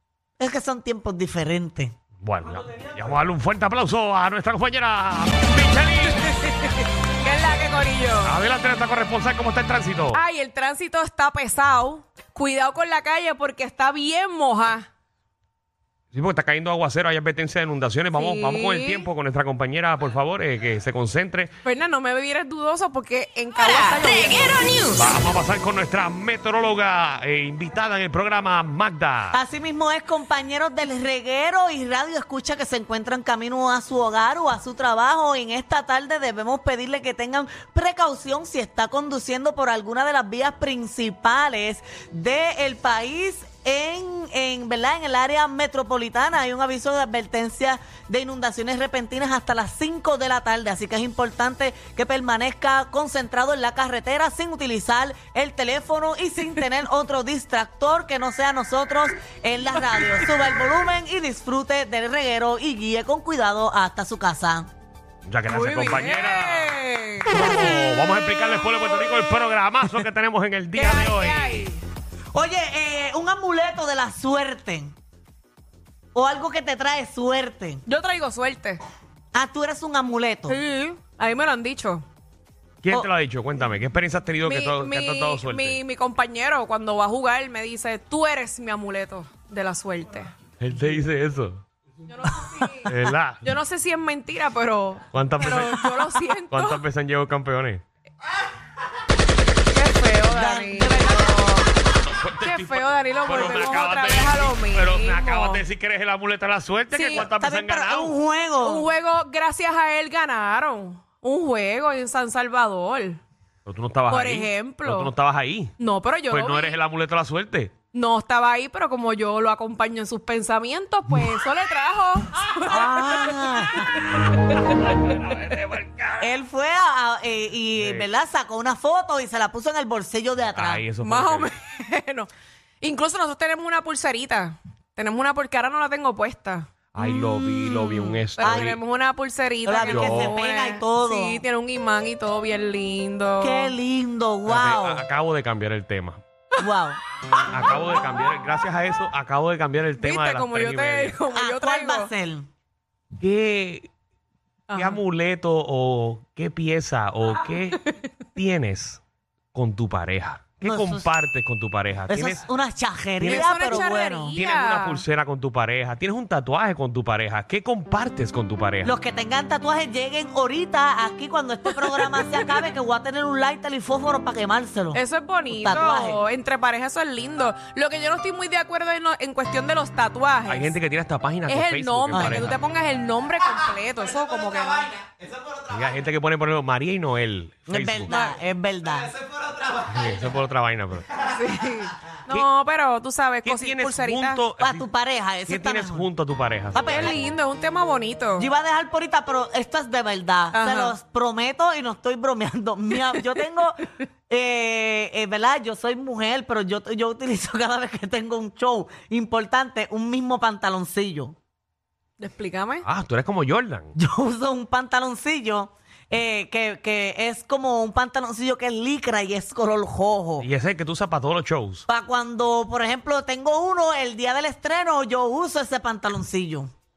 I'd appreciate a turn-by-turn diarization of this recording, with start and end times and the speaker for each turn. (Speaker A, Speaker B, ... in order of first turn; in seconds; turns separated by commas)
Speaker A: 0.4-1.9, Speaker B: 2.2-6.3, Speaker C: 6.2-8.4, Speaker B: 8.2-10.2, Speaker C: 10.1-14.9, Speaker B: 16.1-21.5, Speaker C: 18.1-19.1, Speaker C: 21.6-25.1, Speaker A: 23.6-24.4, Speaker B: 24.9-29.4, Speaker A: 29.3-64.7, Speaker B: 65.3-66.7, Speaker C: 65.5-67.3, Speaker B: 67.3-71.7, Speaker C: 70.7-71.8, Speaker A: 72.3-74.9, Speaker A: 76.1-77.8, Speaker C: 77.8-78.8, Speaker A: 79.3-80.6, Speaker C: 80.5-82.0, Speaker B: 82.8-85.8, Speaker C: 84.4-90.3, Speaker B: 90.6-91.6, Speaker C: 92.1-96.8, Speaker B: 92.9-93.4, Speaker B: 95.1-97.8, Speaker C: 99.7-101.7, Speaker A: 100.3-101.6, Speaker B: 102.0-108.2, Speaker C: 102.4-105.6, Speaker C: 106.9-107.3, Speaker A: 107.2-108.9, Speaker C: 108.6-113.2, Speaker B: 113.6-115.7, Speaker C: 114.1-115.1, Speaker C: 115.8-116.8, Speaker B: 116.3-117.7, Speaker C: 117.9-124.9, Speaker A: 122.7-124.1, Speaker B: 124.9-126.3, Speaker A: 126.2-130.8, Speaker B: 127.8-128.1, Speaker B: 130.5-131.5, Speaker C: 131.0-132.3, Speaker C: 132.8-136.7, Speaker B: 136.9-138.8, Speaker C: 137.7-143.7, Speaker A: 138.4-138.7, Speaker A: 139.6-141.4, Speaker B: 139.9-140.4, Speaker A: 143.4-145.0, Speaker B: 144.4-146.2, Speaker A: 146.6-147.0, Speaker B: 147.5-151.2, Speaker C: 150.0-152.1, Speaker A: 151.3-152.5, Speaker B: 153.2-153.9, Speaker C: 154.7-155.0, Speaker B: 154.7-157.8, Speaker B: 158.3-159.0, Speaker B: 159.5-162.4, Speaker A: 160.6-161.1, Speaker A: 162.1-164.4, Speaker C: 163.2-165.0, Speaker B: 163.2-163.7, Speaker B: 164.3-168.9, Speaker A: 168.8-176.2, Speaker C: 171.8-172.5, Speaker C: 174.9-180.8, Speaker B: 180.5-182.6, Speaker C: 181.4-185.0, Speaker A: 182.1-182.5, Speaker B: 185.6-188.3, Speaker A: 187.7-189.1, Speaker C: 188.1-188.4, Speaker B: 189.8-191.2, Speaker C: 191.2-194.4, Speaker B: 193.4-194.8, Speaker A: 194.6-196.1, Speaker B: 195.5-197.2, Speaker A: 196.7-197.2, Speaker C: 196.9-198.5, Speaker A: 198.4-211.3, Speaker C: 200.5-200.9, Speaker C: 212.2-212.8, Speaker B: 212.8-213.9, Speaker A: 213.9-220.5, Speaker B: 220.4-221.8, Speaker A: 221.9-226.7